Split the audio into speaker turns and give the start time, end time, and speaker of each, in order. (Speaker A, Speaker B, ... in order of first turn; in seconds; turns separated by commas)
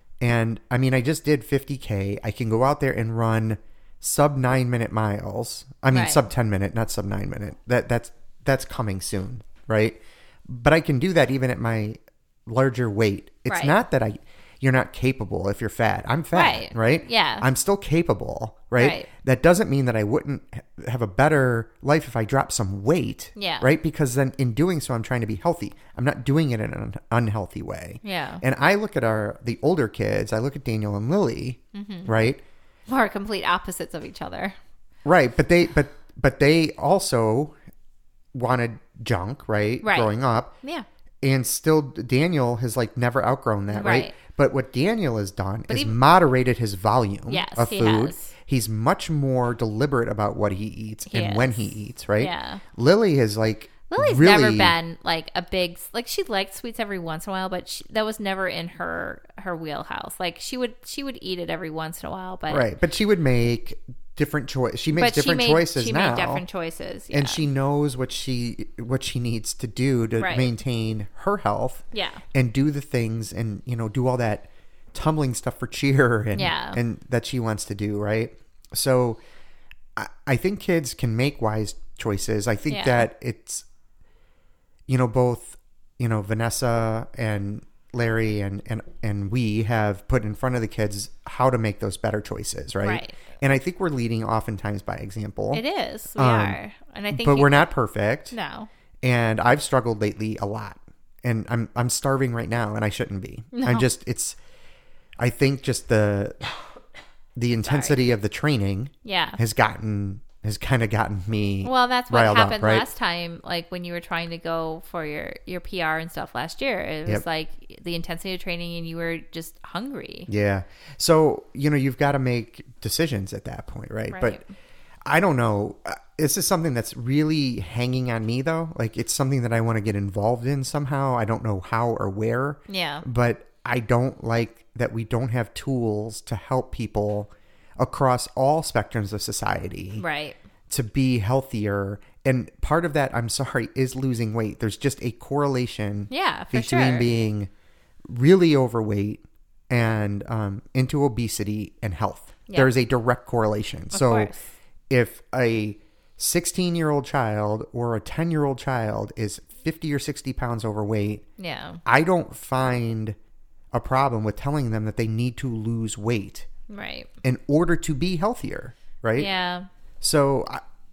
Speaker A: 0.2-32.4, Speaker B: 5.9-6.2, Speaker B: 13.5-13.7, Speaker B: 16.3-17.4, Speaker B: 18.8-19.1, Speaker B: 23.4-23.7, Speaker B: 28.0-28.4, Speaker B: 31.7-32.1, Speaker B: 32.9-34.5, Speaker A: 35.0-37.5, Speaker A: 38.3-40.5, Speaker B: 39.8-40.9, Speaker A: 41.2-54.8, Speaker B: 43.7-44.1, Speaker B: 45.7-46.0, Speaker B: 47.3-48.3, Speaker B: 51.1-52.6, Speaker B: 53.9-62.6, Speaker A: 62.5-66.4, Speaker B: 65.0-67.4, Speaker A: 67.1-79.2, Speaker B: 70.2-70.5, Speaker B: 71.9-72.2, Speaker B: 76.3-76.8, Speaker A: 80.0-83.6, Speaker B: 82.7-83.1, Speaker A: 84.9-95.6, Speaker B: 92.8-93.2, Speaker B: 95.5-97.7, Speaker A: 96.2-96.6, Speaker A: 97.1-98.3, Speaker B: 98.3-98.7, Speaker A: 99.0-104.4, Speaker B: 103.5-103.9, Speaker A: 105.2-106.5, Speaker A: 107.3-112.9, Speaker B: 107.6-108.0, Speaker B: 109.0-109.4, Speaker B: 111.6-120.3, Speaker A: 120.3-124.4, Speaker B: 124.1-124.5, Speaker A: 125.0-140.0, Speaker B: 132.7-133.0, Speaker B: 140.0-140.4, Speaker A: 140.7-147.5, Speaker B: 146.1-147.2, Speaker A: 148.1-154.3, Speaker B: 153.9-154.5, Speaker A: 154.9-161.2, Speaker B: 161.4-161.8, Speaker A: 161.8-163.2, Speaker A: 163.7-166.5, Speaker B: 166.7-167.1, Speaker A: 167.2-169.3, Speaker B: 169.2-169.7, Speaker A: 170.0-170.6